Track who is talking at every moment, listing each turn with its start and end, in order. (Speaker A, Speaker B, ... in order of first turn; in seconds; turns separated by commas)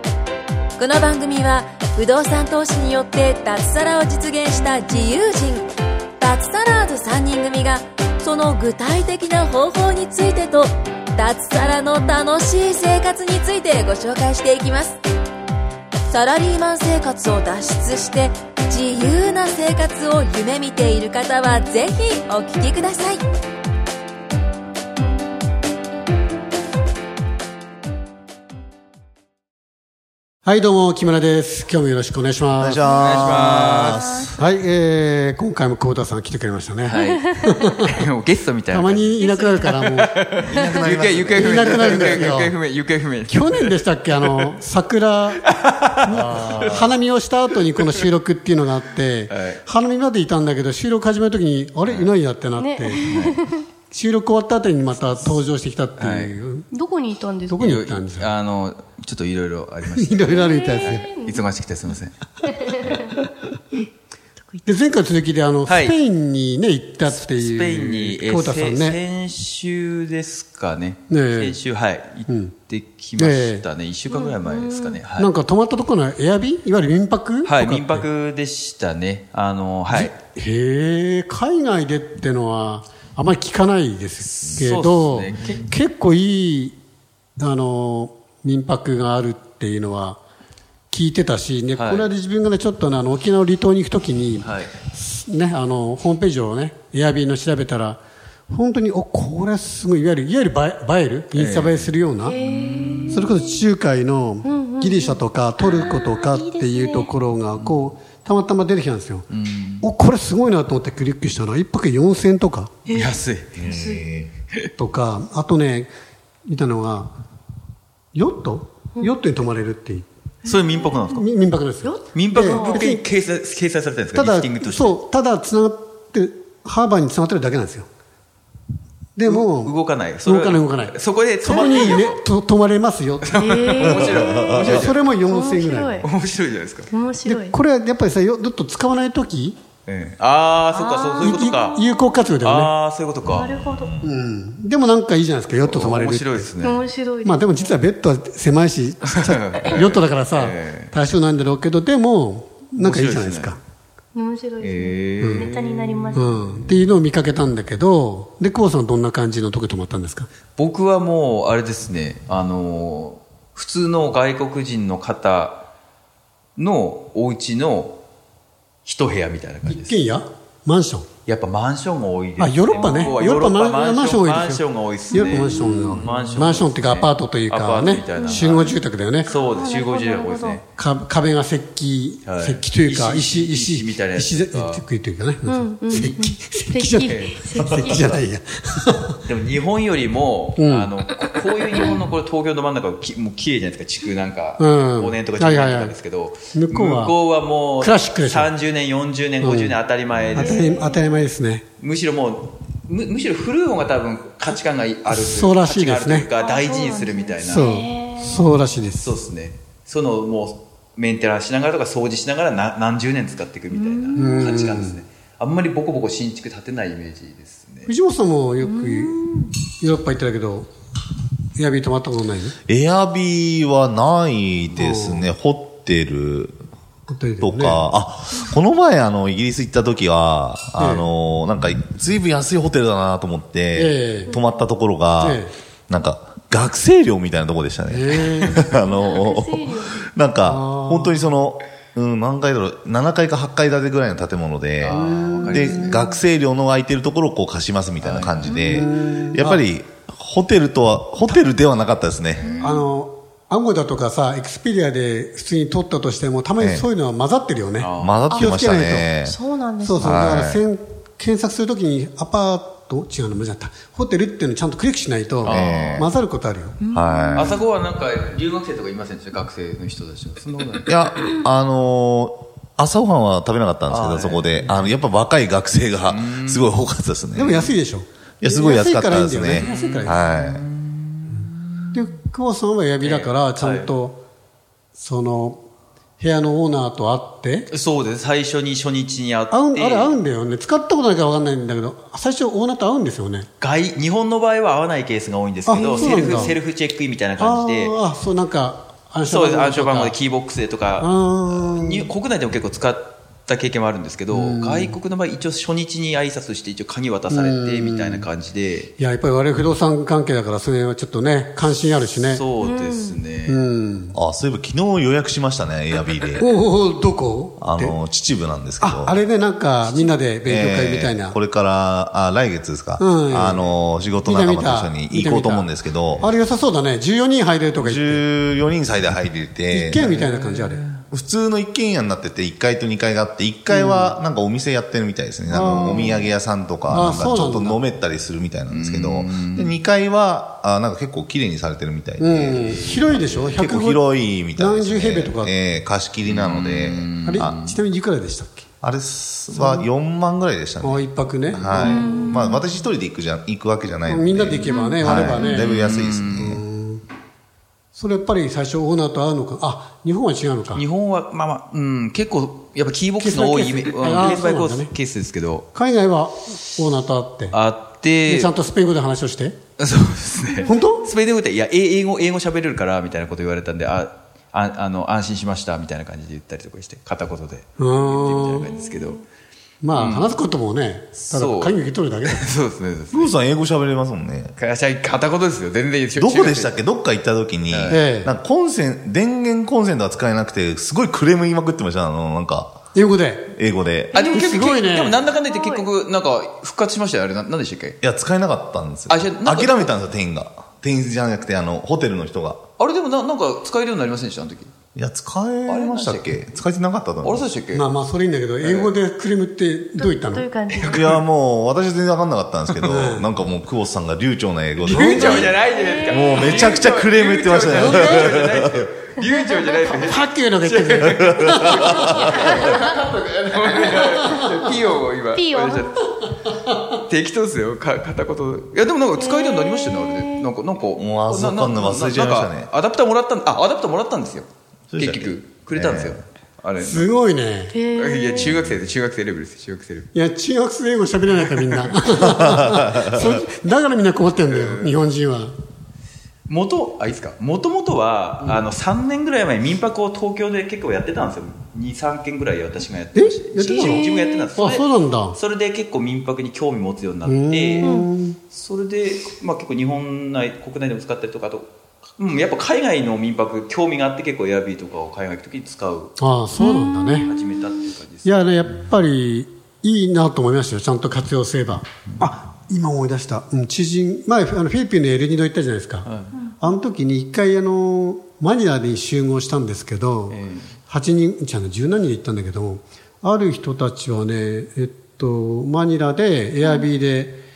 Speaker A: 0.8-15.0, Speaker A: 16.1-23.2, Speaker B: 30.4-32.8, Speaker C: 32.6-34.4, Speaker D: 32.8-34.3, Speaker E: 33.0-34.1, Speaker B: 34.4-37.8, Speaker E: 36.8-44.5, Speaker B: 38.7-40.1, Speaker D: 39.2-39.5, Speaker C: 40.4-42.2, Speaker D: 40.5-40.9, Speaker B: 41.3-42.6, Speaker B: 43.2-45.4, Speaker E: 45.4-47.0, Speaker B: 46.0-53.3, Speaker C: 46.1-46.8, Speaker E: 47.7-48.0, Speaker E: 49.3-49.6, Speaker E: 51.9-52.1, Speaker D: 52.5-53.6, Speaker E: 53.0-53.4, Speaker B: 53.9-56.7, Speaker E: 56.0-56.4, Speaker D: 56.7-57.5, Speaker B: 57.5-58.3, Speaker E: 57.6-62.2, Speaker B: 59.8-61.0, Speaker D: 60.5-61.4, Speaker D: 62.5-62.9, Speaker B: 64.7-69.0, Speaker E: 65.7-66.0, Speaker E: 67.0-75.3, Speaker B: 71.1-71.6, Speaker B: 72.3-72.5, Speaker B: 73.2-73.7, Speaker D: 74.1-75.0, Speaker B: 75.1-78.1, Speaker E: 77.4-80.1, Speaker B: 79.9-86.8, Speaker E: 84.2-85.7, Speaker B: 87.4-90.2, Speaker B: 90.9-102.4, Speaker E: 91.7-92.1, Speaker E: 94.4-94.8, Speaker E: 101.3-103.3, Speaker D: 102.2-103.0, Speaker B: 103.1-109.3, Speaker D: 104.4-107.1, Speaker E: 107.5-107.9, Speaker E: 109.3-109.9, Speaker B: 109.8-112.8, Speaker E: 112.9-113.7, Speaker C: 113.5-114.3, Speaker D: 113.7-114.0, Speaker B: 114.8-115.9, Speaker B: 116.5-117.1, Speaker B: 118.1-120.1, Speaker E: 120.5-121.3, Speaker B: 121.1-123.0, Speaker D: 121.8-122.8, Speaker E: 122.1-125.0, Speaker B: 124.1-127.9, Speaker B: 129.2-133.3, Speaker E: 129.2-132.2, Speaker E: 133.2-134.9, Speaker D: 133.4-134.7, Speaker C: 133.8-134.9, Speaker B: 134.5-136.1, Speaker D: 135.2-136.1, Speaker E: 136.0-136.9, Speaker D: 136.9-137.5, Speaker B: 137.2-139.6, Speaker E: 139.8-141.8, Speaker D: 140.7-142.1, Speaker B: 141.2-142.7, Speaker E: 142.4-143.5, Speaker C: 143.3-144.1, Speaker D: 143.3-143.9, Speaker B: 144.0-146.5, Speaker E: 145.6-146.9, Speaker D: 146.6-147.8, Speaker B: 147.2-153.6, Speaker E: 149.0-150.9, Speaker E: 152.8-153.6, Speaker D: 154.1-156.5, Speaker E: 154.6-156.8, Speaker B: 155.2-155.5, Speaker B: 156.1-160.3, Speaker E: 160.6-165.7, Speaker E: 166.6-168.0, Speaker E: 168.8-170.0, Speaker B: 169.7-171.1, Speaker E: 171.2-180.6, Speaker B: 172.4-179.3, Speaker D: 172.7-173.1, Speaker D: 178.1-178.3, Speaker D: 179.3-180.6, Speaker B: 180.8-189.2, Speaker E: 182.2-184.9, Speaker D: 185.4-188.2, Speaker E: 187.0-188.2, Speaker E: 189.2-200.6, Speaker B: 190.6-190.9, Speaker B: 194.6-195.9, Speaker B: 196.5-197.2, Speaker B: 197.8-198.5, Speaker B: 199.4-199.8, Speaker B: 200.3-201.6, Speaker D: 200.3-201.2, Speaker E: 201.8-207.8, Speaker B: 205.1-206.3, Speaker D: 206.3-208.8, Speaker B: 207.4-209.2, Speaker E: 209.0-217.9, Speaker D: 213.7-214.3, Speaker B: 214.2-215.0, Speaker B: 217.9-220.7, Speaker D: 218.6-219.5, Speaker B: 221.6-222.6, Speaker C: 222.7-226.6, Speaker B: 224.7-225.3, Speaker B: 227.1-227.8, Speaker C: 227.4-252.4, Speaker B: 230.8-231.1, Speaker B: 233.8-234.4, Speaker D: 234.3-234.6, Speaker B: 235.2-235.5, Speaker B: 237.9-238.7, Speaker D: 238.8-240.1, Speaker B: 240.4-241.3, Speaker E: 244.8-246.2, Speaker B: 244.9-246.1, Speaker E: 248.0-248.7, Speaker B: 248.6-249.6, Speaker E: 252.3-252.7, Speaker D: 252.5-252.8, Speaker B: 252.6-259.1, Speaker C: 256.6-256.9, Speaker E: 257.8-258.3, Speaker C: 258.0-259.4, Speaker D: 258.3-258.6, Speaker D: 259.2-260.2, Speaker B: 259.8-266.8, Speaker C: 259.9-260.6, Speaker E: 265.4-266.1, Speaker C: 265.4-266.1, Speaker D: 266.9-267.3, Speaker C: 266.9-267.5, Speaker E: 267.3-271.0, Speaker C: 270.9-277.6, Speaker E: 273.9-274.9, Speaker E: 276.1-276.7, Speaker B: 277.3-280.2, Speaker C: 278.4-280.6, Speaker E: 279.5-282.0, Speaker B: 281.9-284.2, Speaker E: 283.0-283.9, Speaker B: 284.9-285.6, Speaker B: 286.2-287.7, Speaker E: 287.7-290.2, Speaker B: 289.5-293.5, Speaker E: 293.6-297.9, Speaker B: 295.7-296.6, Speaker B: 297.4-300.2, Speaker E: 299.2-308.9, Speaker B: 301.0-302.1, Speaker B: 304.3-305.0, Speaker B: 307.3-308.3, Speaker B: 309.0-312.5, Speaker E: 311.9-313.6, Speaker D: 312.6-313.2, Speaker B: 313.4-314.2, Speaker C: 314.1-316.5, Speaker B: 316.4-318.0, Speaker C: 317.6-319.1, Speaker B: 318.8-321.4, Speaker C: 320.4-326.3, Speaker B: 323.0-323.7, Speaker B: 324.2-328.2, Speaker C: 327.8-330.1, Speaker B: 329.7-330.8, Speaker E: 329.9-331.0, Speaker C: 331.1-342.8, Speaker B: 333.7-334.1, Speaker B: 335.5-336.2, Speaker E: 335.6-336.2, Speaker B: 336.9-337.8, Speaker E: 338.7-339.8, Speaker B: 342.2-344.0, Speaker E: 342.3-343.7, Speaker C: 343.5-347.6, Speaker B: 344.5-345.5, Speaker E: 346.2-347.8, Speaker B: 347.2-348.7, Speaker C: 348.8-356.5, Speaker B: 349.5-349.9, Speaker B: 350.8-352.4, Speaker E: 351.5-351.9, Speaker D: 351.9-352.6, Speaker B: 354.1-355.7, Speaker D: 354.6-355.6, Speaker E: 355.0-356.6, Speaker B: 356.2-357.0, Speaker B: 357.9-360.8, Speaker E: 360.7-365.7, Speaker B: 363.2-364.9, Speaker B: 365.7-367.6, Speaker E: 367.5-368.5, Speaker B: 368.2-369.6, Speaker E: 369.8-379.2, Speaker B: 370.6-371.1, Speaker B: 377.8-378.8, Speaker B: 379.8-382.5, Speaker E: 379.9-380.3, Speaker E: 381.1-383.3, Speaker C: 383.1-384.5, Speaker E: 384.6-386.8, Speaker C: 386.2-392.8, Speaker E: 387.7-388.0, Speaker B: 387.9-388.3, Speaker B: 392.9-393.5, Speaker C: 393.6-394.6, Speaker E: 394.1-398.0, Speaker D: 394.1-394.9, Speaker B: 394.3-395.2, Speaker D: 395.4-395.9, Speaker C: 398.0-402.6, Speaker E: 399.1-399.9, Speaker E: 402.8-404.7, Speaker C: 404.9-407.4, Speaker E: 405.7-406.6, Speaker E: 407.2-407.9, Speaker B: 407.7-410.4, Speaker E: 408.6-408.9, Speaker D: 410.0-410.9, Speaker C: 410.8-415.6, Speaker E: 410.8-411.2, Speaker B: 412.8-413.3, Speaker E: 414.8-437.1, Speaker B: 414.9-415.5, Speaker D: 415.7-416.7, Speaker C: 416.1-418.9, Speaker B: 417.7-418.3, Speaker B: 419.8-422.2, Speaker C: 421.2-422.7, Speaker B: 424.0-424.3, Speaker D: 425.3-426.0, Speaker D: 429.2-430.5, Speaker C: 430.9-432.7, Speaker C: 434.9-436.1, Speaker B: 436.8-437.8, Speaker D: 437.7-438.4, Speaker E: 437.9-440.1, Speaker C: 438.3-438.8, Speaker B: 440.1-445.5, Speaker E: 441.4-442.4, Speaker C: 442.4-443.3, Speaker E: 444.4-445.0, Speaker E: 446.5-466.1, Speaker B: 453.1-455.4, Speaker D: 453.6-454.5, Speaker B: 457.2-458.4, Speaker D: 457.8-458.1, Speaker B: 466.2-467.3, Speaker D: 466.6-467.5, Speaker E: 467.2-468.8, Speaker B: 468.2-476.1, Speaker E: 476.0-476.4, Speaker D: 476.4-476.7, Speaker B: 476.6-487.4, Speaker E: 480.3-480.7